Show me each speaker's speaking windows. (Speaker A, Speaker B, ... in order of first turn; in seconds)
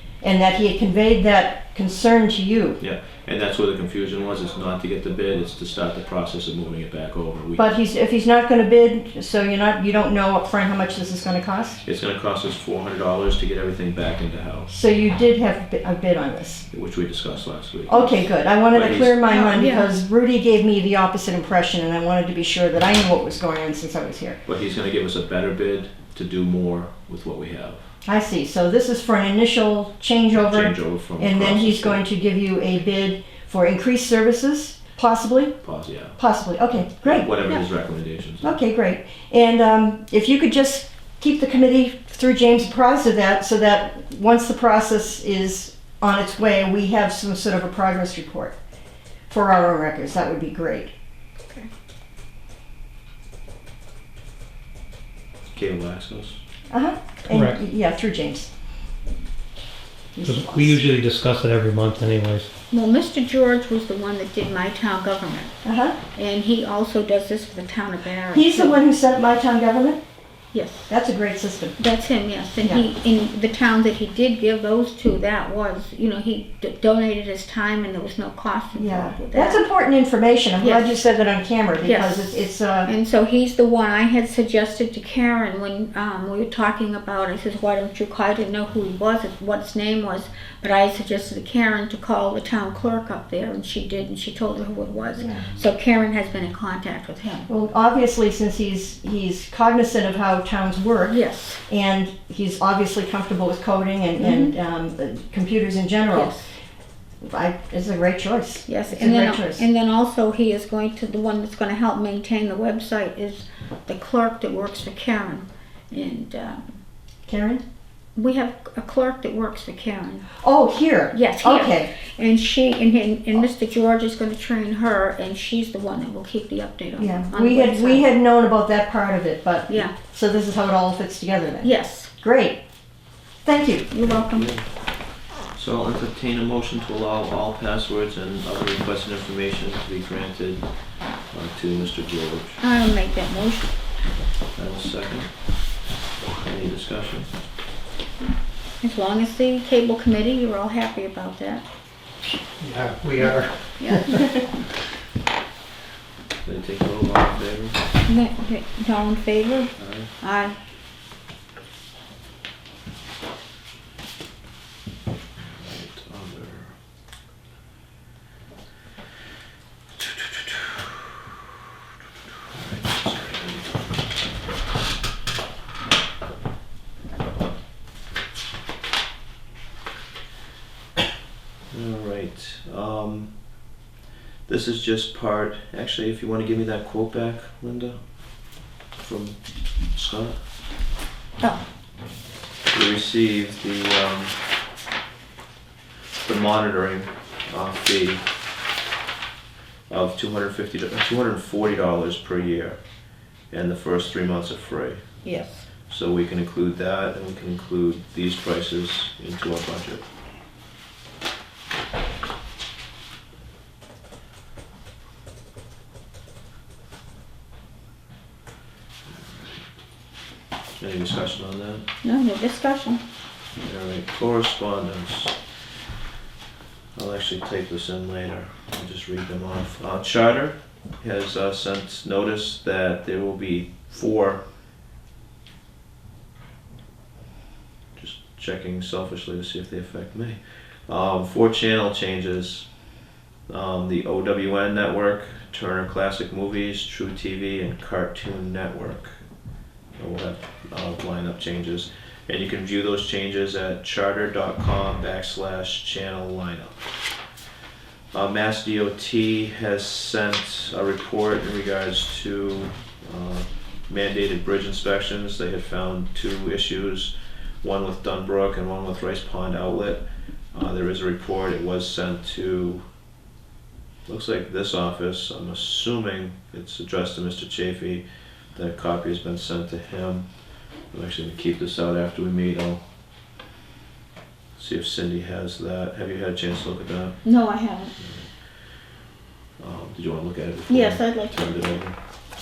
Speaker A: 0.2-2.8, 7.6-11.8, 14.7-16.6, 17.9-24.4, 28.1-35.6, 36.2-37.3, 38.4-48.6, 49.3-50.9, 56.7-58.5, 60.2-60.8, 65.6-66.0, 68.3-70.0, 70.9-71.8, 78.8-82.9, 95.2-95.5, 97.5-106.3, 107.2-109.7, 117.3-117.6, 120.4-121.9, 127.0-132.6, 133.4-133.9
Speaker B: 2.8-7.7, 11.8-14.7, 16.7-19.2, 24.5-27.8, 30.5-32.0, 35.6-36.2, 37.0-38.5, 55.5-56.4, 134.3-134.7, 135.5-140.7, 141.3-142.6, 144.6-145.3, 146.4-147.3, 156.4-157.8, 159.8-160.1, 165.4-166.7, 170.0-171.0, 172.5-173.9, 181.7-183.3, 184.5-188.0, 189.0-189.4, 189.9-190.4, 192.7-194.3, 196.2-198.2, 199.9-202.8, 203.5-205.0, 205.9-210.0, 219.1-219.6, 220.8-221.8, 223.6-225.3, 226.9-234.4, 238.0-242.7, 243.5-249.2, 250.0-256.8, 258.1-272.8, 274.1-278.0, 278.6-280.2, 280.9-282.8, 284.6-287.2, 289.6-292.0
Speaker C: 19.3-19.9, 62.7-65.5, 66.1-68.8, 70.5-70.9, 71.8-79.6, 80.6-81.0, 81.8-97.5, 101.1-101.6, 104.2-104.5, 106.1-106.5, 108.7-116.8, 118.2-120.3, 121.1-128.1, 129.7-129.9, 131.6-132.1, 133.9-134.5, 142.6-143.7, 148.8-151.6, 153.8-154.3, 158.1-160.6, 205.2-205.7, 222.0-223.0, 287.2-287.9, 290.7-291.4
Speaker D: 57.3-57.6, 60.2-62.5, 152.6-154.4